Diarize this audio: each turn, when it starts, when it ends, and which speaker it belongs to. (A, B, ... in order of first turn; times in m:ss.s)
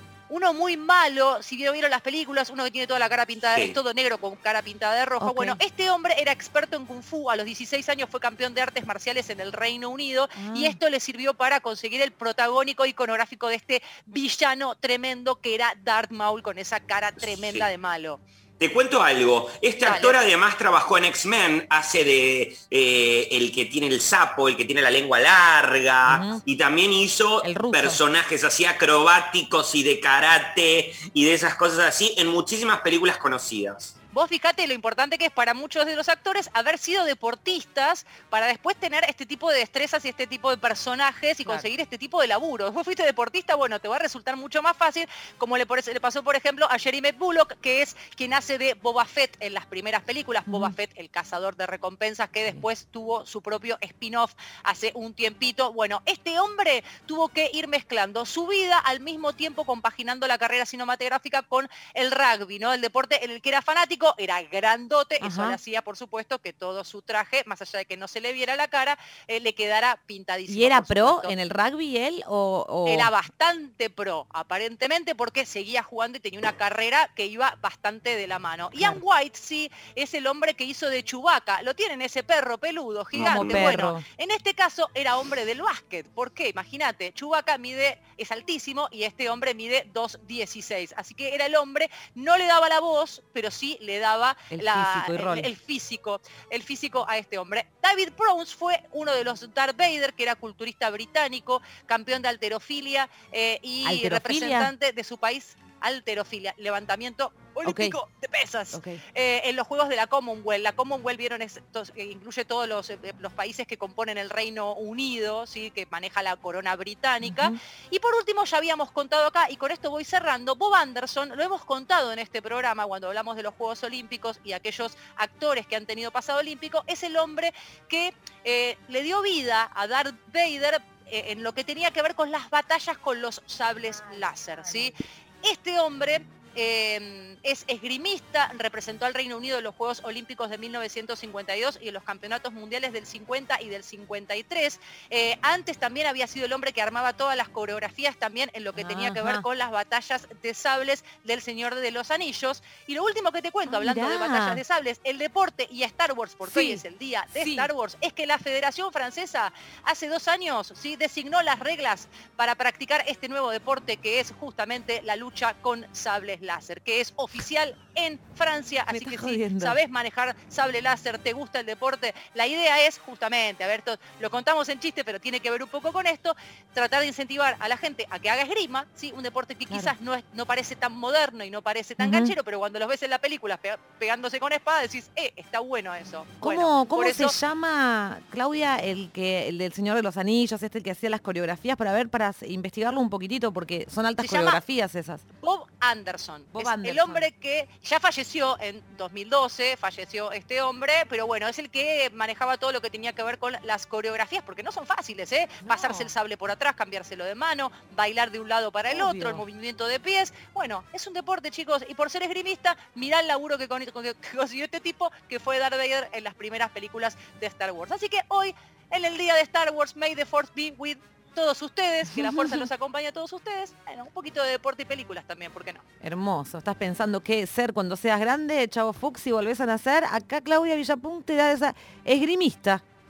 0:00.3-0:18.2 A
0:03.4-0:03.7 B
0:05.2-0:05.6 C
0:10.4-0:10.8 C
0:17.2-0:17.7 B
0:18.6-0:33.9 B
0:19.8-0:20.1 A
0:26.0-0:26.4 C
0:27.4-0:28.0 C
0:34.1-1:11.3 A
0:50.5-0:50.8 C
1:05.2-1:05.6 C
1:10.5-1:13.1 C
1:12.8-3:07.3 A
1:23.1-1:23.7 B
1:23.2-1:24.0 C
1:34.5-1:35.5 C
1:43.8-1:44.7 C
1:47.6-1:47.9 C
1:48.7-1:49.0 C
1:57.2-1:57.6 C
2:28.7-2:29.4 C
2:33.7-2:34.6 C
2:36.4-2:37.7 C
2:48.9-2:49.8 C
3:02.0-3:02.3 C
3:06.4-3:15.2 C
3:14.2-3:14.6 A
3:15.4-3:45.8 A
3:16.5-3:17.3 C
3:25.6-3:26.1 C
3:28.9-3:29.4 C
3:42.1-3:42.7 C
3:46.0-3:52.8 C